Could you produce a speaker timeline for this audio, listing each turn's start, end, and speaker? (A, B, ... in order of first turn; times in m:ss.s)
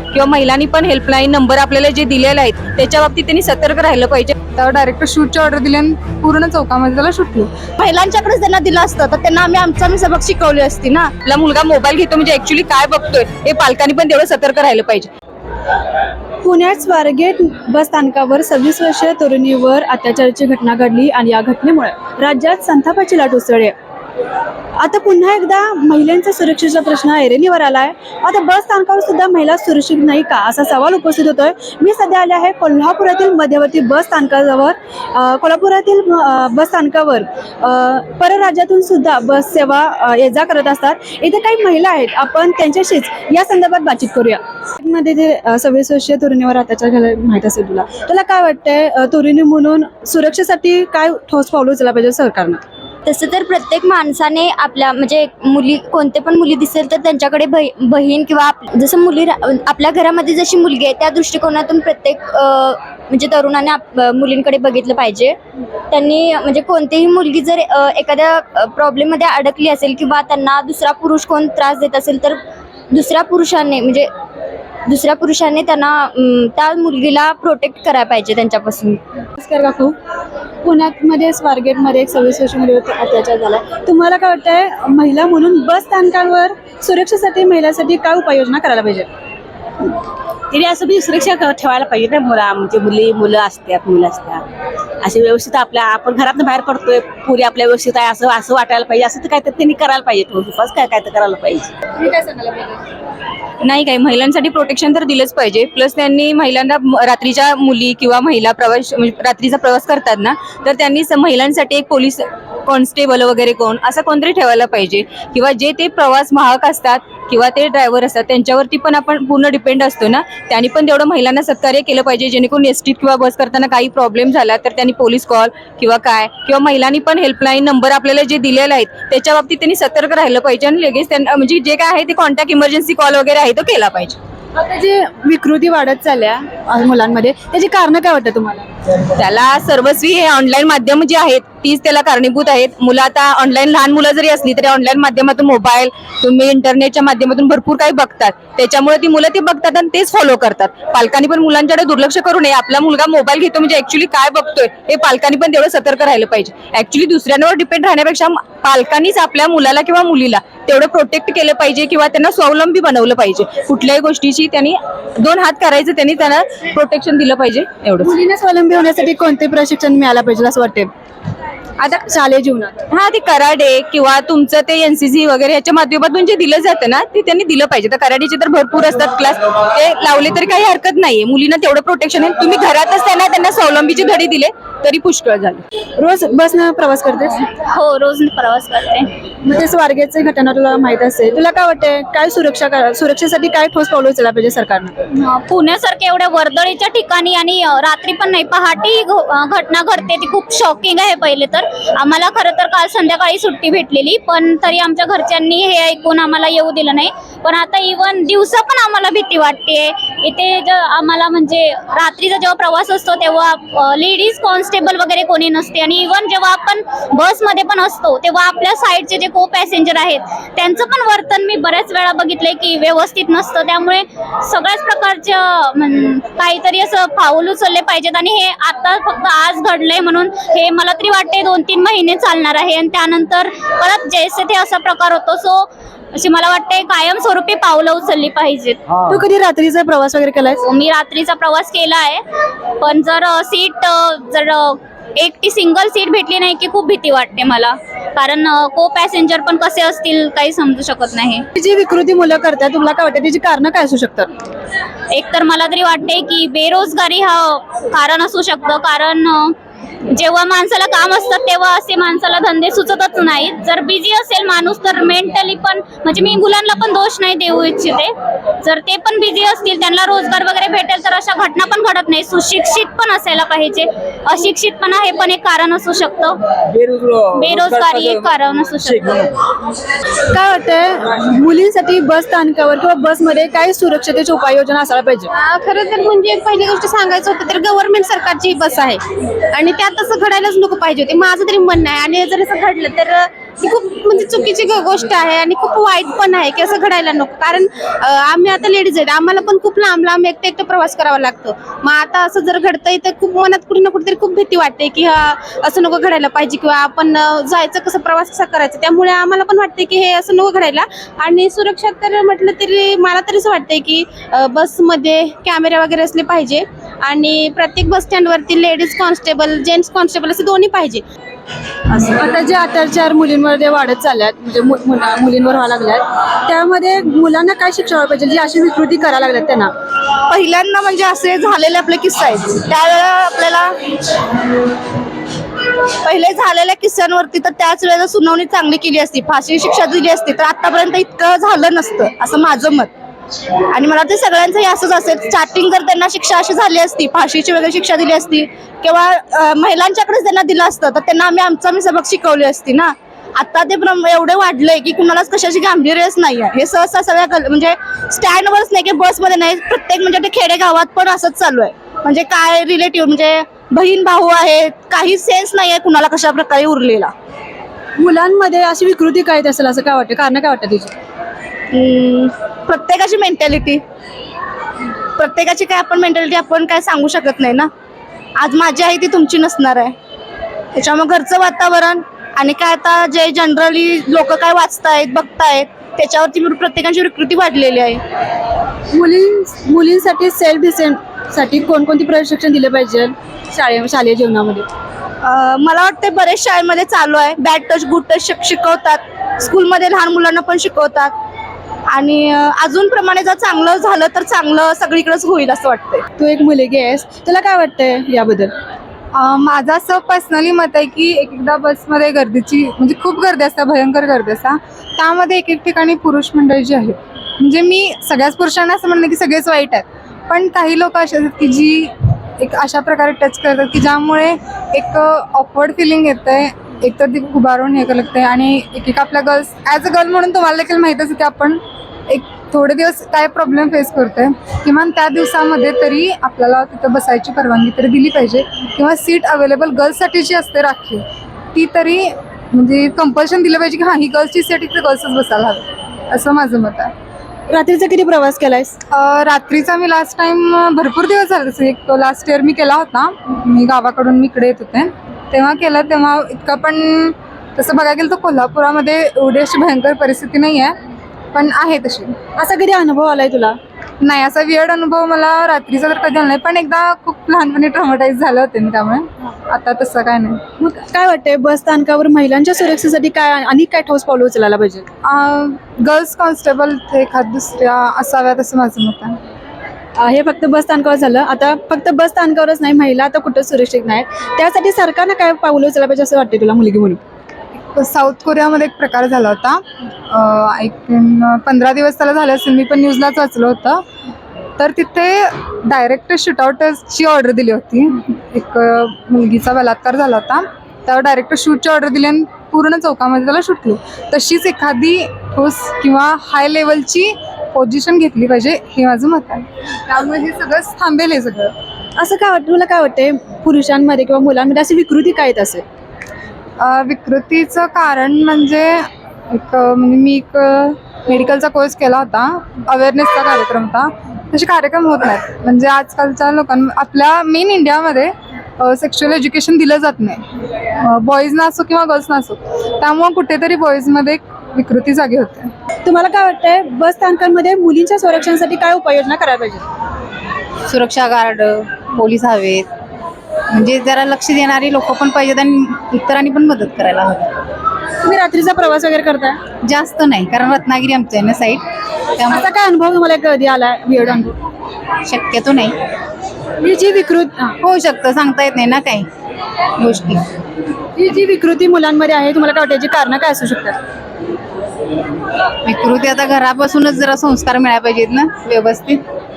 0:00.1-0:04.4 A
0:04.6-0:07.5 B
0:07.8-0:11.1 C
0:11.2-0:15.1 A
0:16.4-0:23.7 D
0:24.8-0:52.6 D
0:53.1-1:05.4 E
1:05.9-1:12.4 E
1:12.9-1:14.1 E
1:14.9-1:19.0 E
1:19.4-1:20.0 D
1:20.6-1:29.1 D
1:30.5-1:34.4 F
1:35.0-1:41.7 F
1:42.0-1:42.8 B
1:43.6-2:14.2 A
2:14.6-2:18.7 D
2:19.1-2:48.1 A
2:48.0-2:50.9 D
2:51.8-2:52.8 D
2:52.9-3:05.6 A
3:06.0-3:07.4 D
3:07.5-3:09.1 G
3:09.4-3:14.9 D
3:15.1-3:58.8 G
3:59.1-4:00.6 D
4:00.6-4:02.2 G
4:02.8-4:11.4 G
4:11.6-4:14.3 D
4:15.1-4:19.6 G
4:20.1-4:36.4 G
4:37.2-4:39.3 G
4:40.3-4:45.3 D
4:45.4-5:21.0 H
5:21.9-5:29.7 D
5:30.3-5:33.8 C
5:36.0-5:42.9 C
5:43.7-6:07.1 C
6:08.0-6:10.9 D
6:11.7-6:13.8 C
6:15.2-6:17.7 C
6:18.4-6:20.0 C
6:20.7-6:28.0 C
6:29.0-6:34.7 D
6:35.2-6:41.1 C
6:41.9-6:46.1 C
6:46.2-6:48.5 D
6:49.2-7:21.0 B
7:21.5-7:26.9 B
7:27.5-7:28.8 D
7:28.9-7:40.8 B
7:41.3-7:42.2 B
7:42.4-7:43.6 D
7:44.0-7:50.4 B
7:50.6-7:54.9 D
7:55.0-7:59.2 B
8:00.0-8:07.0 D
8:07.7-8:13.8 B
8:14.6-8:31.5 B
8:32.0-8:35.6 D
8:36.6-8:50.2 B
8:50.8-8:55.5 B
8:55.8-8:59.6 D
9:00.7-9:02.7 I
9:03.5-9:07.3 I
9:08.0-9:09.4 D
9:09.6-9:11.6 I
9:12.3-9:14.4 D
9:15.1-9:15.8 I
9:16.6-9:17.6 D
9:17.6-9:19.1 I
9:19.8-9:20.2 I
9:21.0-9:23.8 D
9:25.6-9:29.0 I